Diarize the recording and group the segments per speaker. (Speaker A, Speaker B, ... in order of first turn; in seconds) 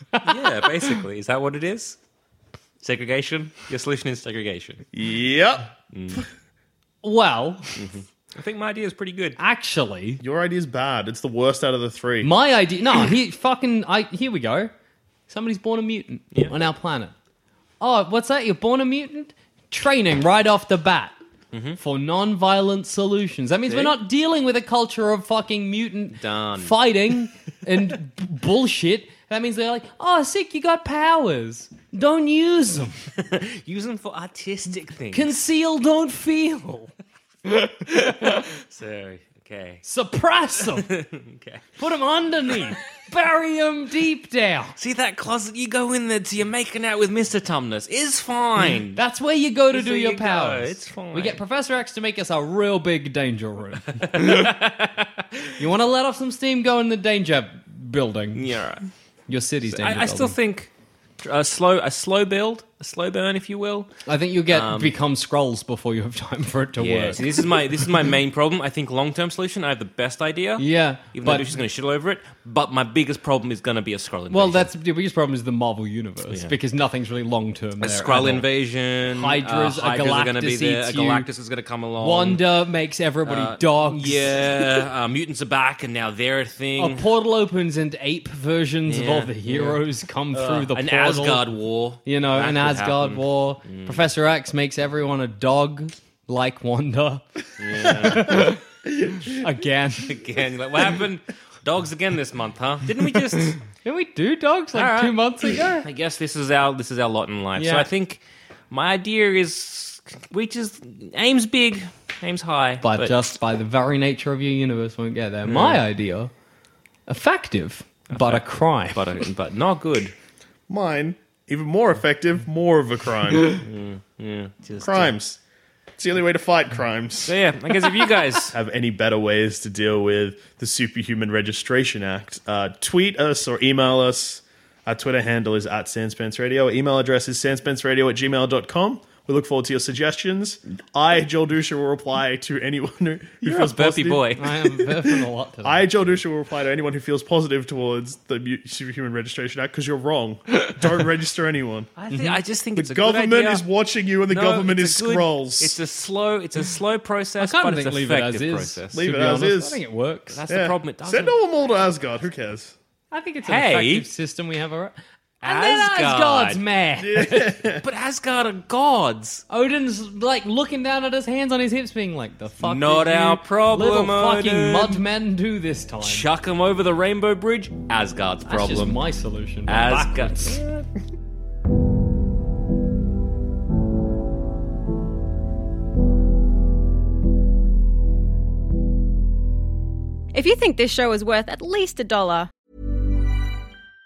Speaker A: 0.2-2.0, 2.8-4.8, 5.9-6.2, 7.8-9.4, 21.5-21.8, 23.7-24.0, 26.2-26.8, 33.2-35.4, 38.3-39.8, 40.7-41.8, 44.8-49.0, 49.7-51.4, 54.0-55.2, 58.3-58.9, 59.7-63.9, 64.5-64.9, 66.8-74.7, 77.8-82.4, 83.2-87.0, 88.9-94.1, 97.6-98.6, 100.0-103.6, 104.7-113.2, 115.5-115.8, 118.1-120.1, 123.5-125.1, 127.2-128.6, 143.4-144.5, 152.0-153.6, 154.3-159.1, 160.3-161.3, 163.4-164.1, 165.4-166.6, 167.8-169.4, 172.6-175.0, 176.0-179.0, 179.7-180.8
Speaker B: 4.9-5.7, 10.2-12.3, 120.7-123.5, 124.8-125.4, 126.0-127.3, 128.5-151.9, 152.7-155.8, 158.9-159.8, 160.5-162.8, 167.0-167.8
Speaker C: 7.0-7.8, 9.4-10.2, 12.2-14.7, 15.3-17.1, 17.8-21.1, 21.8-33.1, 35.1-36.9, 37.5-38.4, 39.8-40.9, 41.8-44.7, 48.9-54.5, 55.6-58.4, 59.3-60.4, 64.0-67.5, 70.6-71.5, 74.3-78.5, 79.1-81.3, 82.0-84.4, 86.8-91.5, 92.0-100.2, 103.4-105.8, 107.5-107.9, 112.8-116.3, 117.1-119.0, 144.3-145.8, 152.1-152.4, 157.4-160.4, 163.1-167.6, 169.5-176.2, 178.4-180.6
Speaker D: 190.3-192.5